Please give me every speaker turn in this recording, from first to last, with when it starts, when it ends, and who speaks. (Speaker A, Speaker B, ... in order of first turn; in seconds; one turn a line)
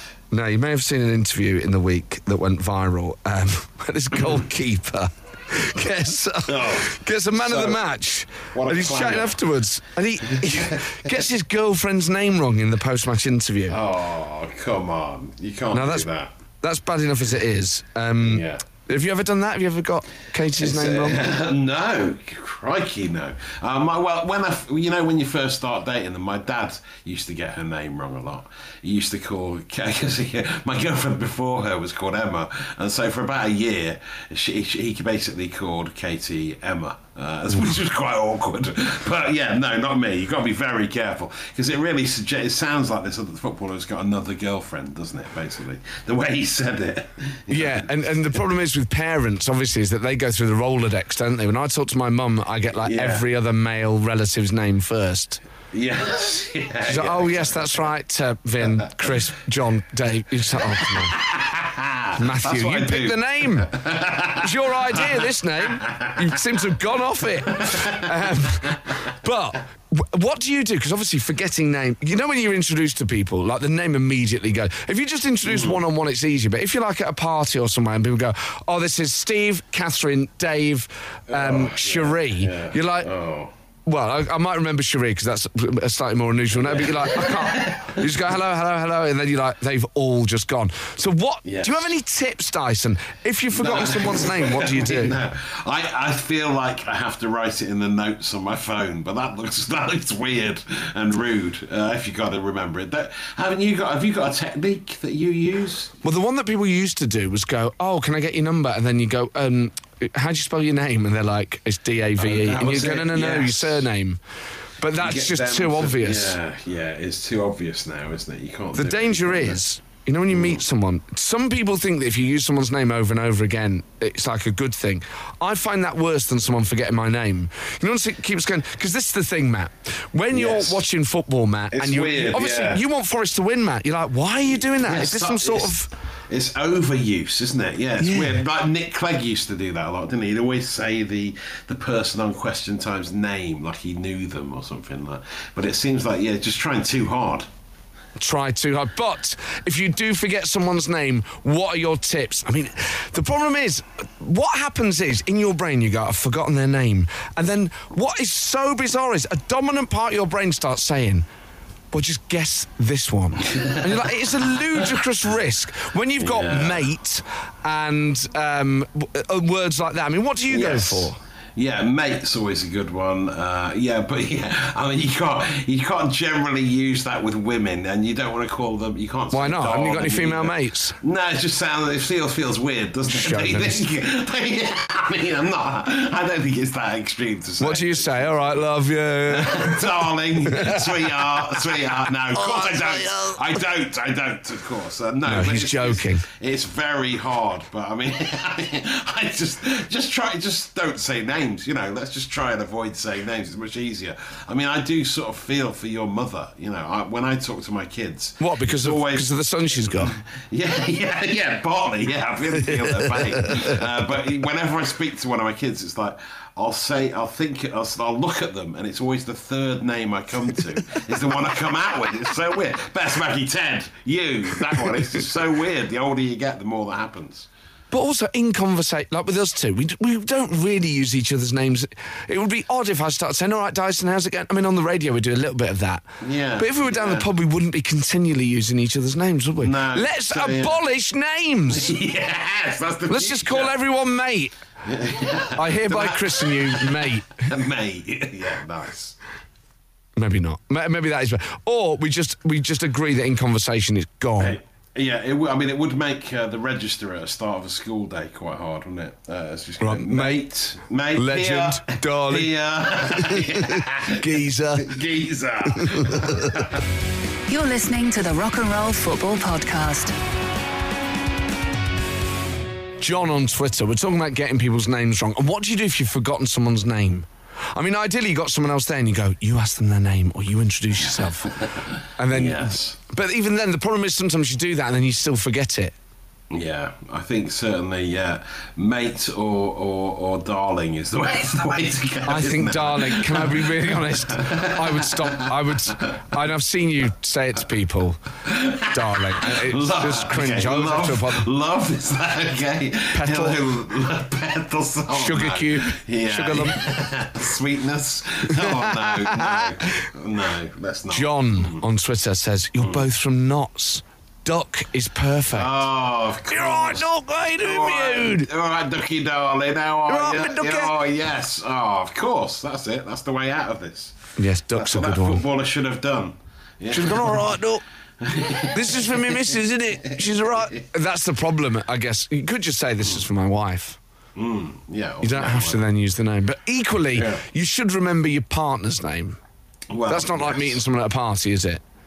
Speaker A: 0.3-13.8
Speaker B: 6.5-7.8
Speaker B: 8.5-9.4
Speaker B: 10.3-10.8
Speaker B: 13.7-16.3
Speaker A: 15.7-16.1
Speaker A: 16.6-21.2
Speaker B: 18.2-18.6
Speaker B: 20.6-48.4
Speaker A: 47.5-55.4
Speaker B: 52.8-53.2
Speaker B: 55.7-57.8
Speaker A: 56.8-61.1
Speaker B: 60.6-66.2
Speaker A: 62.2-63.8
Speaker A: 64.4-83.1
Speaker B: 67.5-68.1
Speaker B: 75.5-75.8
Speaker B: 81.3-83.5
Speaker A: 83.8-95.2
Speaker B: 86.6-88.1
Speaker B: 91.4-91.9
Speaker B: 93.6-105.9
Speaker A: 106.0-114.2
Speaker B: 112.2-113.8
Speaker A: 114.8-116.3
Speaker B: 115.0-119.6
Speaker A: 118.8-135.9
Speaker B: 120.3-120.6
Speaker B: 130.3-130.8
Speaker B: 131.7-132.8
Speaker B: 134.6-135.8
Speaker B: 136.3-147.5
Speaker A: 138.0-138.4
Speaker A: 148.2-161.2
Speaker A: 161.9-171.2
Speaker B: 166.2-166.8
Speaker B: 170.5-188.6
Speaker A: 179.3-180.9
Speaker A: 183.1-183.8
Speaker A: 187.6-193.4
Speaker B: 189.3-227.5
Speaker A: 195.2-196.2
Speaker A: 208.4-210.2
Speaker A: 212.7-213.8
Speaker A: 227.9-236.0
Speaker B: 236.2-237.3
Speaker A: 236.6-241.9
Speaker B: 239.6-240.8
Speaker B: 241.7-243.8
Speaker A: 243.1-244.5
Speaker B: 244.8-249.2
Speaker A: 245.6-247.5
Speaker A: 250.2-254.6
Speaker B: 254.4-266.8
Speaker A: 259.8-260.4
Speaker A: 261.1-262.5
Speaker A: 263.0-265.0
Speaker A: 265.7-266.6
Speaker C: 267.5-270.1
Speaker A: 273.0-285.9
Speaker B: 281.4-283.0
Speaker B: 286.5-296.2
Speaker A: 292.3-298.2
Speaker B: 298.4-311.8
Speaker A: 298.9-301.4
Speaker A: 303.1-303.6
Speaker A: 305.1-306.8
Speaker A: 308.5-310.1
Speaker A: 311.1-315.8
Speaker B: 315.5-317.1
Speaker A: 316.5-318.5
Speaker B: 317.6-324.2
Speaker A: 320.1-320.9
Speaker A: 324.4-325.4
Speaker B: 324.7-327.4
Speaker A: 326.9-327.8
Speaker B: 328.2-329.5
Speaker A: 328.7-334.0
Speaker B: 330.1-330.6
Speaker B: 334.4-335.8
Speaker A: 335.2-339.4
Speaker B: 337.1-337.4
Speaker B: 339.9-340.8
Speaker A: 340.1-341.8